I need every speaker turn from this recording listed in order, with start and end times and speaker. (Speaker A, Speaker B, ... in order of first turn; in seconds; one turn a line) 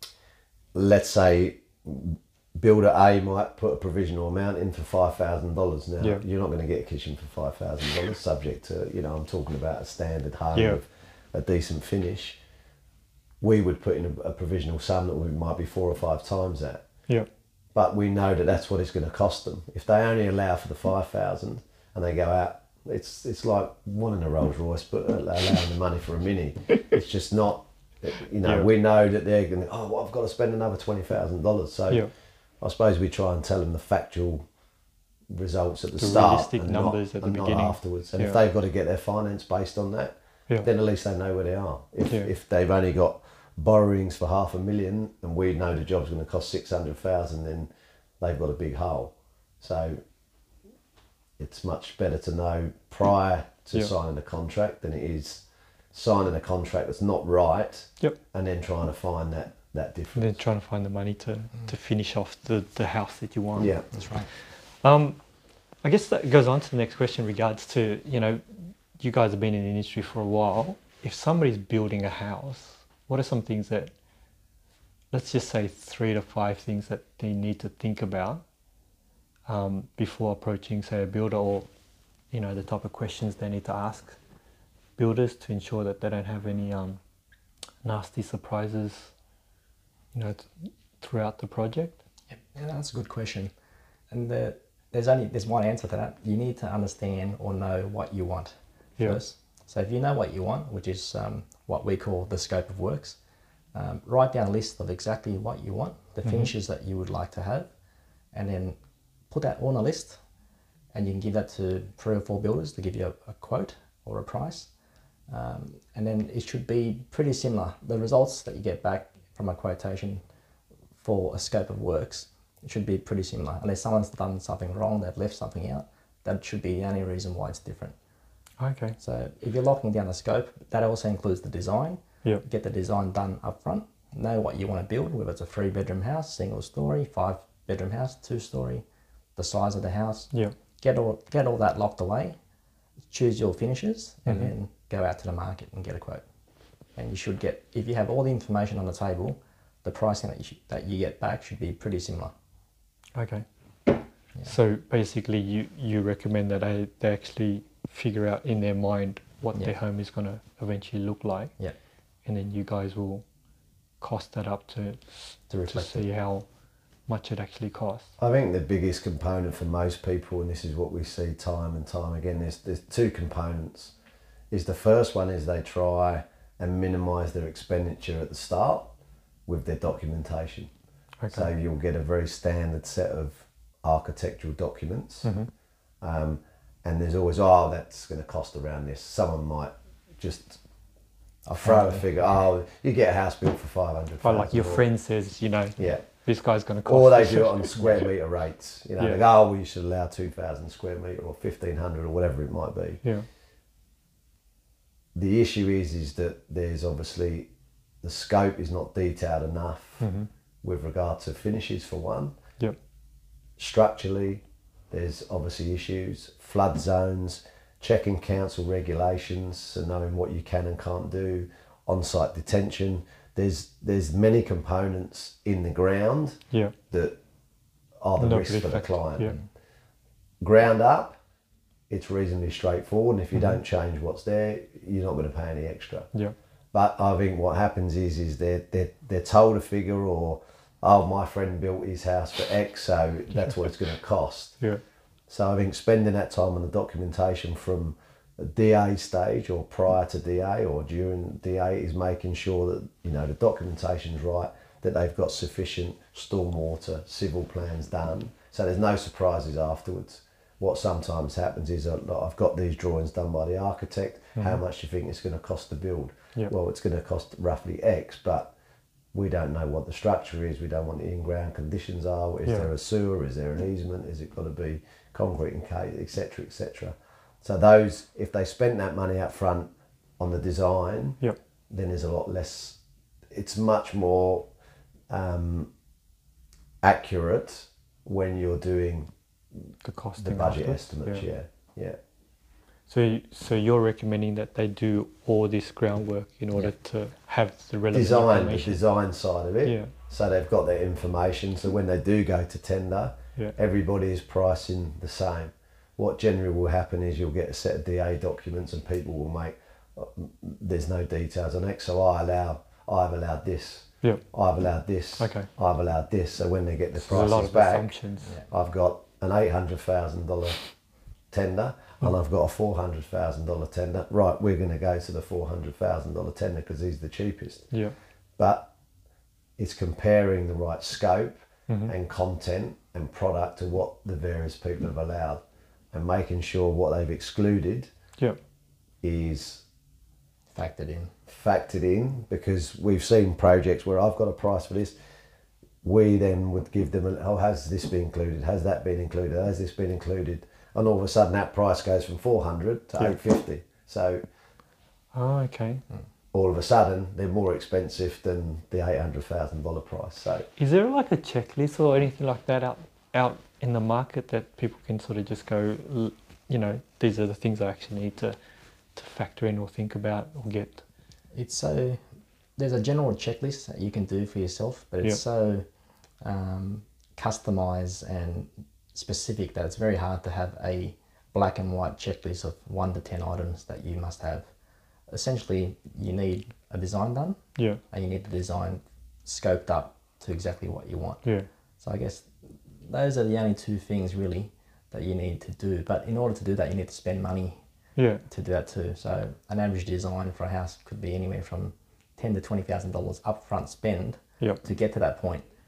Speaker A: 0.7-12.4
Speaker A: 13.4-16.9
Speaker A: 17.8-32.1
Speaker B: 28.4-28.7
Speaker A: 32.6-34.5
Speaker A: 35.3-47.7
Speaker B: 36.0-38.4
Speaker A: 48.2-50.0
Speaker A: 51.4-60.3
Speaker B: 60.1-63.8
Speaker A: 63.6-63.9
Speaker C: 63.9-64.3
Speaker B: 64.8-65.2
Speaker B: 65.8-73.9
Speaker B: 75.1-78.4
Speaker B: 79.5-81.7
Speaker B: 82.3-84.2
Speaker B: 85.0-87.0
Speaker B: 87.8-89.1
Speaker B: 90.1-92.0
Speaker C: 92.3-93.5
Speaker C: 94.1-103.2
Speaker C: 103.7-107.7
Speaker B: 106.2-106.5
Speaker C: 108.3-108.8
Speaker C: 109.3-110.2
Speaker C: 110.9-114.7
Speaker C: 115.3-120.2
Speaker C: 121.0-128.0
Speaker B: 128.6-129.0
Speaker C: 129.0-138.8
Speaker C: 139.4-142.4
Speaker C: 143.1-146.2
Speaker C: 147.0-152.3
Speaker B: 153.2-153.4
Speaker B: 154.4-161.5
Speaker B: 162.2-163.2
Speaker B: 164.0-165.0
Speaker C: 165.5-166.1
Speaker B: 165.7-166.5
Speaker B: 167.1-168.1
Speaker A: 168.2-173.9
Speaker A: 174.5-178.9
Speaker A: 179.5-180.7
Speaker B: 181.2-181.5
Speaker A: 181.3-185.3
Speaker B: 185.2-185.5
Speaker A: 186.0-190.6
Speaker C: 191.5-192.1
Speaker A: 191.5-194.9
Speaker B: 194.2-198.1
Speaker A: 195.8-196.1
Speaker A: 196.9-203.0
Speaker A: 205.2-207.5
Speaker A: 208.0-210.1
Speaker B: 210.0-210.3
Speaker A: 210.6-212.4
Speaker A: 213.6-227.2
Speaker A: 228.0-229.4
Speaker B: 228.2-229.4
Speaker A: 230.4-231.2
Speaker A: 231.9-236.1
Speaker A: 236.7-244.6
Speaker A: 245.3-268.5
Speaker A: 269.1-282.8
Speaker A: 283.3-284.5
Speaker A: 285.1-285.7
Speaker A: 286.8-289.1
Speaker B: 289.8-291.2
Speaker A: 290.2-292.0
Speaker B: 292.9-298.8
Speaker A: 297.9-317.9
Speaker B: 299.6-299.9
Speaker B: 315.2-315.5
Speaker B: 317.0-318.3
Speaker A: 318.5-320.6
Speaker A: 321.3-327.7
Speaker A: 328.4-328.7
Speaker A: 329.6-337.9
Speaker A: 339.0-339.6
Speaker C: 340.5-341.1
Speaker A: 341.3-344.9
Speaker A: 345.8-354.2
Speaker B: 355.1-355.8
Speaker A: 356.3-360.5
Speaker B: 360.6-368.4
Speaker B: 368.9-370.8
Speaker C: 371.3-372.0
Speaker C: 372.6-375.6
Speaker C: 376.2-384.5
Speaker C: 385.1-387.4
Speaker C: 387.9-391.2
Speaker C: 391.8-392.3
Speaker C: 392.9-397.6
Speaker B: 398.0-398.2
Speaker C: 398.3-405.4